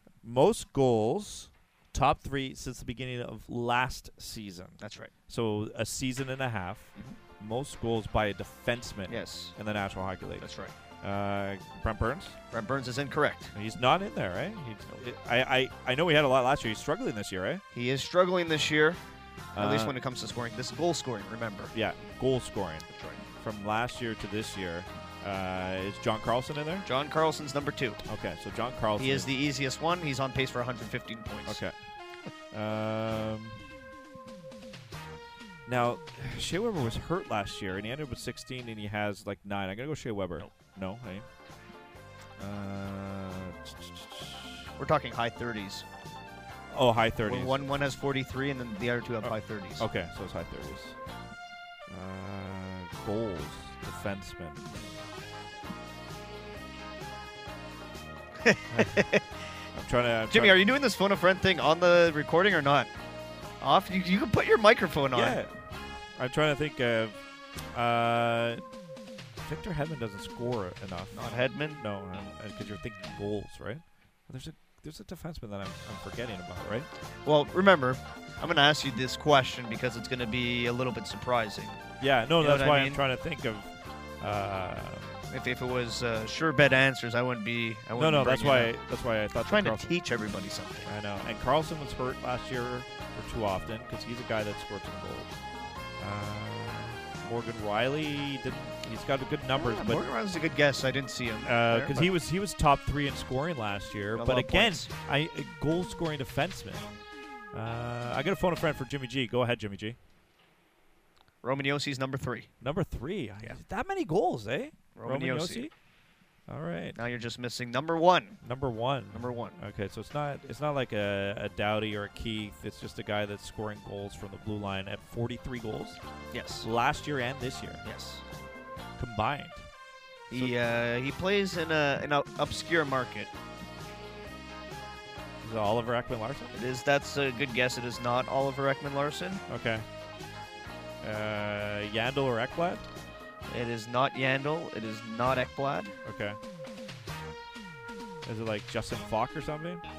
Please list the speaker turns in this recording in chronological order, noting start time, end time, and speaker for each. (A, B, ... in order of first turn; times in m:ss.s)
0:00.2-0:04.8 A
0:04.8-0:05.1 B
0:05.3-0:10.5 A
0:09.1-0:09.6 B
0:10.4-0:10.7 B
0:11.0-0:12.4 A
0:12.5-0:13.5 B
0:13.6-0:17.6 A
0:17.7-0:19.0 B
0:19.6-0:20.0 A
0:19.6-0:21.7 B
0:21.7-0:22.9 A
0:22.9-0:23.2 B
0:23.4-0:26.9 A
0:26.8-0:28.0 B
0:28.1-0:29.3 A
0:29.0-0:31.6 B
0:31.4-0:31.8 A
0:32.5-0:33.6 A
0:35.7-0:41.3 A
0:42.4-0:44.7 A
0:44.8-0:45.9 B
0:46.7-0:47.7 A
0:47.2-0:49.8 B
0:49.2-0:51.0 A
0:51.9-0:54.7 A
0:58.4-0:59.2 B
0:58.7-0:59.0 A
0:59.8-1:00.6 A
1:00.3-1:02.9 B
1:03.6-1:05.4 B
1:05.1-1:05.5 A
1:06.2-1:07.2 A
1:07.7-1:08.6 A
1:09.4-1:11.2 A
1:11.1-1:11.8 B
1:11.8-1:16.9 A
1:17.2-1:21.8 B
1:22.0-1:25.2 A
1:22.4-1:23.0 B
1:25.3-1:28.7 B
1:28.0-1:29.9 A
1:29.4-1:30.9 B
1:30.9-1:35.4 A
1:36.0-1:40.0 A
1:39.5-1:42.1 B
1:41.4-1:46.8 A
1:44.1-1:44.9 B
1:47.5-1:50.0 A
1:51.4-1:52.5 B
1:52.6-1:55.7 A
1:55.0-1:55.7 B
1:56.5-1:57.0 A
1:57.0-1:58.4 B
1:58.4-2:06.0 A
1:59.1-1:59.6 B
2:06.3-2:06.7 B
2:06.6-2:07.8 A
2:07.8-2:08.2 B
2:09.0-2:09.7 A
2:10.3-2:13.3 B
2:15.4-2:16.6 A
2:16.5-2:19.4 B
2:19.5-2:19.8 A
2:21.0-2:22.8 A
2:23.5-2:25.9 B
2:26.0-2:26.4 A
2:28.2-2:29.8 A